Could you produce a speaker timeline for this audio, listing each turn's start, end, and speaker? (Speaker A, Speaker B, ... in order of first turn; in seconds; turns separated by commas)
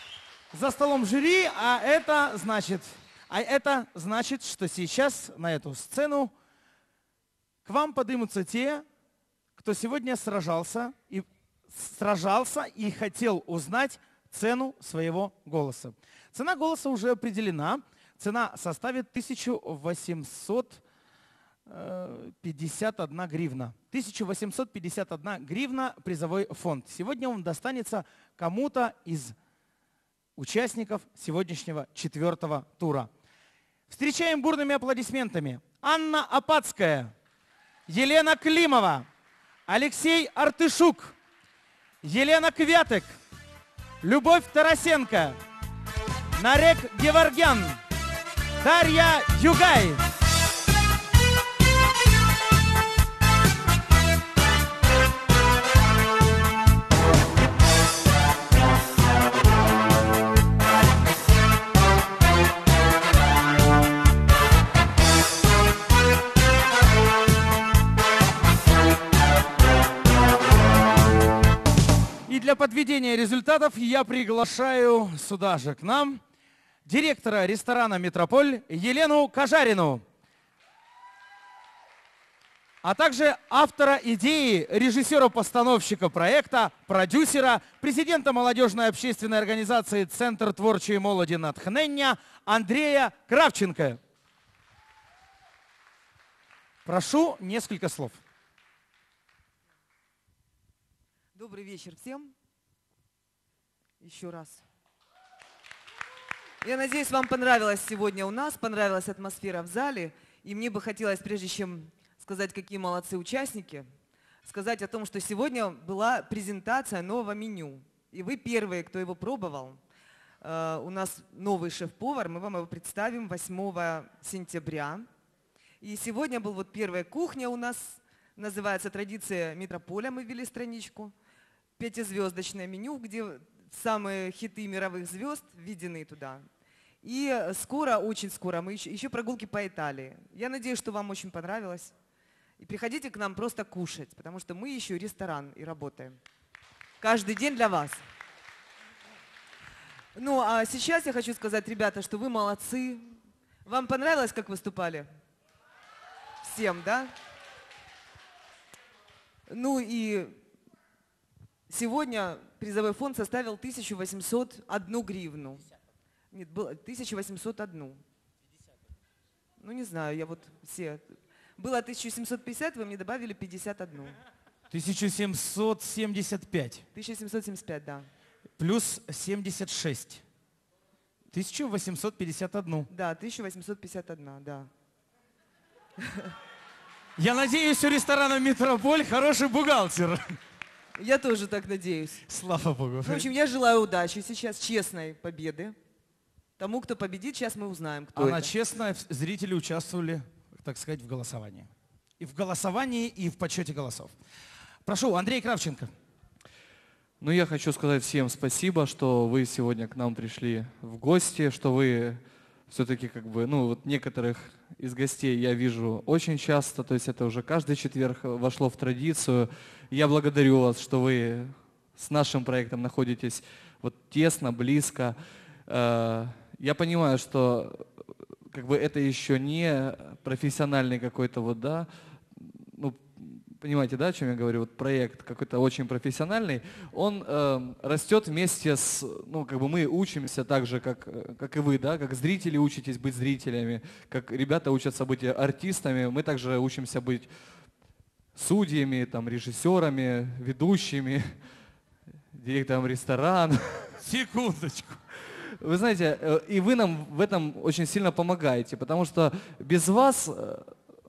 Speaker A: 0.5-6.3, Speaker A: 7.7-8.8, Speaker A: 9.6-20.8, Speaker A: 21.7-29.4, Speaker A: 30.4-33.1, Speaker A: 33.9-37.1, Speaker A: 37.9-39.1, Speaker A: 39.7-41.2, Speaker A: 42.0-43.2, Speaker A: 44.0-45.4, Speaker A: 46.4-47.8, Speaker A: 48.6-50.0, Speaker A: 72.3-76.2, Speaker A: 76.9-80.0, Speaker A: 82.8-94.0, Speaker A: 96.8-98.2, Speaker B: 101.3-102.3, Speaker B: 104.0-104.6, Speaker B: 106.6-113.9, Speaker B: 114.4-119.8, Speaker B: 120.4-125.1, Speaker B: 125.8-131.1, Speaker B: 131.8-136.4, Speaker B: 137.0-141.9, Speaker B: 142.6-146.2, Speaker B: 147.0-148.0, Speaker B: 150.2-155.1, Speaker B: 156.4-157.1, Speaker B: 159.5-160.4, Speaker B: 161.7-165.7, Speaker B: 166.3-168.0, Speaker B: 169.6-174.2, Speaker A: 174.7-176.8, Speaker B: 176.9-178.1, Speaker A: 178.6-180.2, Speaker A: 181.3-182.9, Speaker B: 182.9-184.7, Speaker B: 186.0-186.3, Speaker A: 187.2-190.4, Speaker B: 191.0-192.2, Speaker A: 192.3-193.3, Speaker B: 193.0-195.8, Speaker B: 196.6-198.5, Speaker A: 198.2-201.7, Speaker A: 202.2-204.1, Speaker A: 204.8-205.9, Speaker C: 207.2-225.2, Speaker C: 225.7-227.9, Speaker C: 228.5-247.3, Speaker C: 248.4-251.2, Speaker C: 252.3-254.0, Speaker A: 254.0-255.0, Speaker C: 255.3-260.7